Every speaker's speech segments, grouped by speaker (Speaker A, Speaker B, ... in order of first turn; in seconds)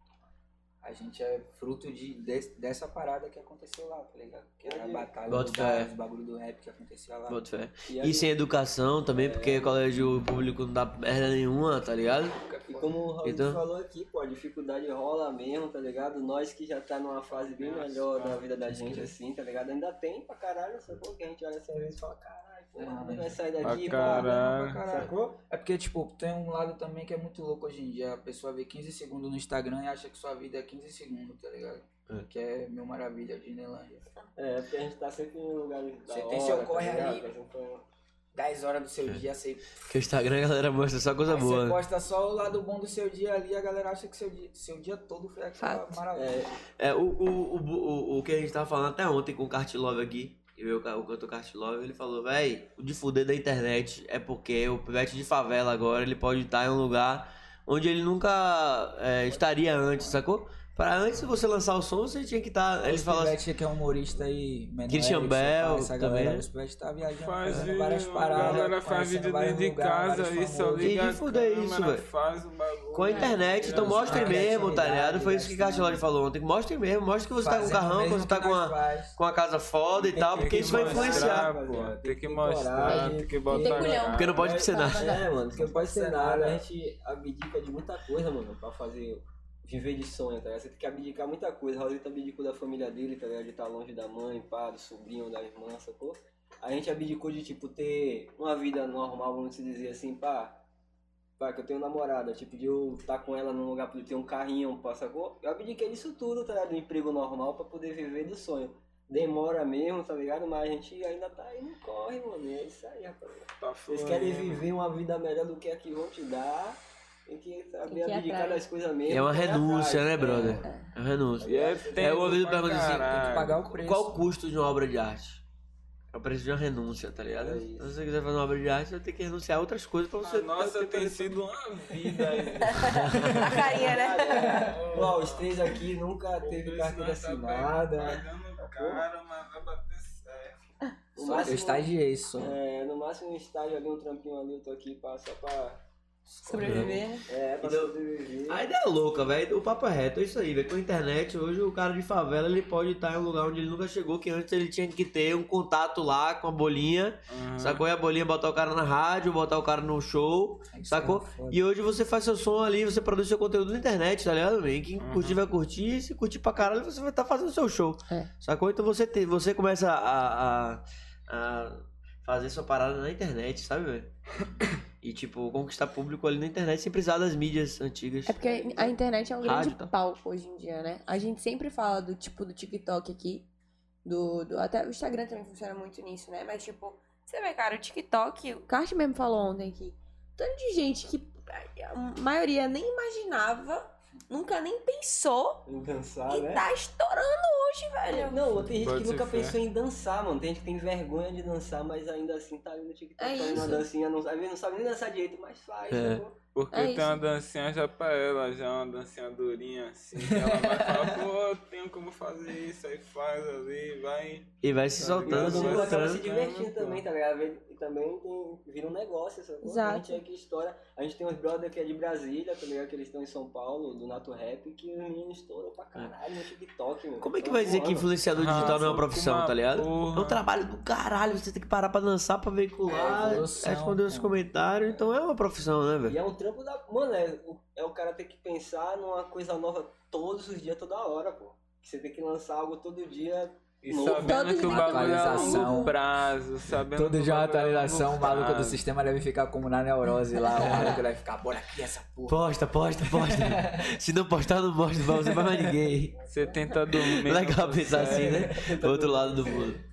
Speaker A: 0.8-7.4, 12.4-13.0, 18.7-19.1, 22.8-34.1, 36.1-37.3, 38.3-39.9, 41.3-46.5, 59.3-60.2, 62.8-71.0, 73.8-76.0, 77.4-79.2, 85.5-86.7, 123.1-124.3, 134.3-134.8, 141.2-142.6, 146.3-147.0, 160.7-161.6, 210.2-211.2, 232.9-234.4, 244.6-246.0, 246.9-252.5, 253.0-253.9, 255.3-255.6
Speaker B: 4.6-5.1, 7.9-8.3, 9.1-9.8, 12.7-25.4, 34.4-37.9, 46.1-46.5, 79.9-100.6, 101.4-120.7, 121.4-122.4, 127.3-127.9, 132.2-132.6, 133.5-139.0, 141.2-145.8, 147.3-148.6, 195.7-196.7, 198.1-206.4, 215.2-229.0, 232.8-233.5, 236.1-244.6, 258.0-259.8
Speaker C: 5.3-5.9, 7.3-12.4, 13.2-13.6, 39.8-41.8, 46.8-63.4, 64.9-66.5, 67.5-67.7, 68.3-68.6, 70.8-72.1, 72.9-81.5, 82.8-83.2, 84.1-85.2, 119.1-125.4, 126.1-131.3, 132.8-133.7, 146.5-147.0, 147.6-148.0, 148.5-174.1, 175.0-179.9, 205.9-206.2, 214.6-216.2, 227.2-236.2, 250.5-251.0, 252.3-256.2, 256.9-259.8
Speaker D: 17.3-18.4, 23.6-24.9, 67.1-74.6, 80.3-84.5, 113.6-114.7, 121.4-123.6, 130.2-133.0, 134.7-135.6, 136.4-140.6, 157.3-157.8, 165.0-165.4, 198.8-199.6, 206.5-217.1, 228.3-230.4, 243.8-248.8, 256.3-258.5
Speaker E: 45.6-46.0, 73.1-73.4, 83.5-85.2, 117.9-118.7, 120.6-120.9, 132.7-134.7, 146.4-147.3, 178.3-183.5, 184.1-195.7, 196.3-198.4, 203.2-203.9, 206.7-207.2, 219.6-220.2, 244.0-245.9